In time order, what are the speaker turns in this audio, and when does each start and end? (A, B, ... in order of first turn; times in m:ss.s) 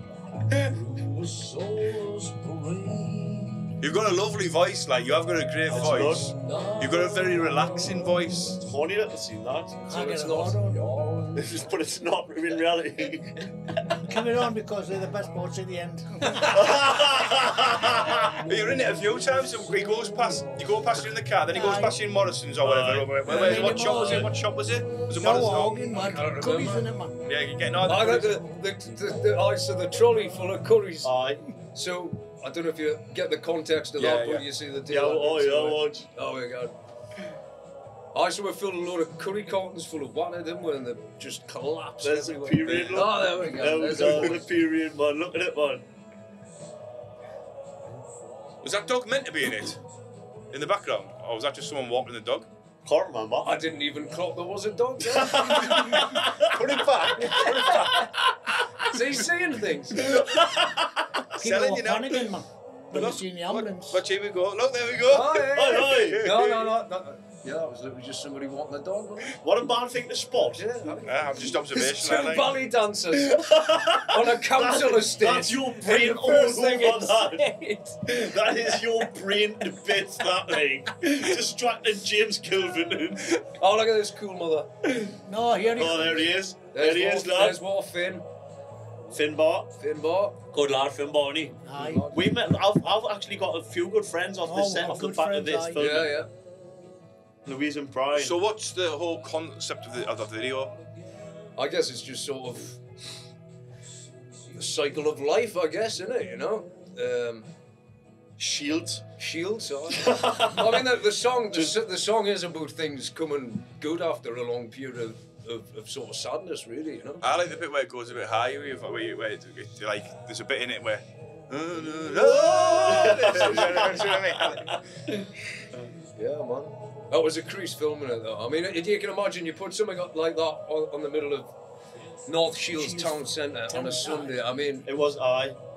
0:00.5-0:03.8 A
0:03.8-0:08.6 B
0:05.7-0:06.3 C
0:05.8-0:08.7 A
0:08.6-0:09.8 C
0:09.8-0:11.7 A
0:09.9-0:10.8 D
0:11.4-0:13.8 C
0:14.0-0:16.8 D
0:16.5-0:18.2 C
0:18.4-0:28.4 B
0:21.5-0:22.0 D
0:22.7-0:23.1 C
0:22.9-0:24.3 A
0:23.2-0:24.4 D
0:25.1-0:27.3 D
0:27.8-0:36.8 A
0:31.0-0:31.4 C
0:34.0-0:34.5 B
0:34.9-0:36.1 C
0:38.1-0:44.5 A
0:42.0-0:45.8 C
0:48.6-0:49.8 B
0:50.5-0:52.5 B
0:52.8-0:53.6 C
0:53.4-0:55.9 A
0:55.1-0:56.5 C
0:55.8-0:57.5 B
0:57.2-0:58.1 A
0:58.8-1:00.3 A
1:00.1-1:00.7 C
1:01.3-1:02.3 B
1:01.4-1:04.0 D
1:02.9-1:06.7 B
1:05.1-1:09.4 A
1:05.4-1:06.4 C
1:09.4-1:10.7 C
1:10.4-1:19.0 A
1:11.0-1:12.6 B
1:13.2-1:17.5 C
1:18.1-1:23.4 C
1:23.5-1:25.0 A
1:25.3-1:26.3 D
1:25.7-1:27.6 C
1:26.7-1:28.3 A
1:29.1-1:29.7 C
1:29.8-1:30.4 A
1:30.5-1:31.6 C
1:31.6-1:32.1 D
1:31.7-1:32.4 A
1:32.1-1:36.2 C
1:34.4-1:36.0 D
1:35.8-1:36.3 A
1:37.4-1:38.4 C
1:38.1-1:40.8 B
1:41.6-1:42.8 A
1:44.5-1:47.5 A
1:48.4-1:49.1 C
1:49.2-1:57.3 A
1:49.9-1:50.8 C
1:57.2-2:04.8 B
2:01.7-2:04.1 A
2:02.9-2:04.2 C
2:06.1-2:11.6 A
2:12.3-2:14.9 A
2:12.8-2:14.4 D
2:14.8-2:15.6 C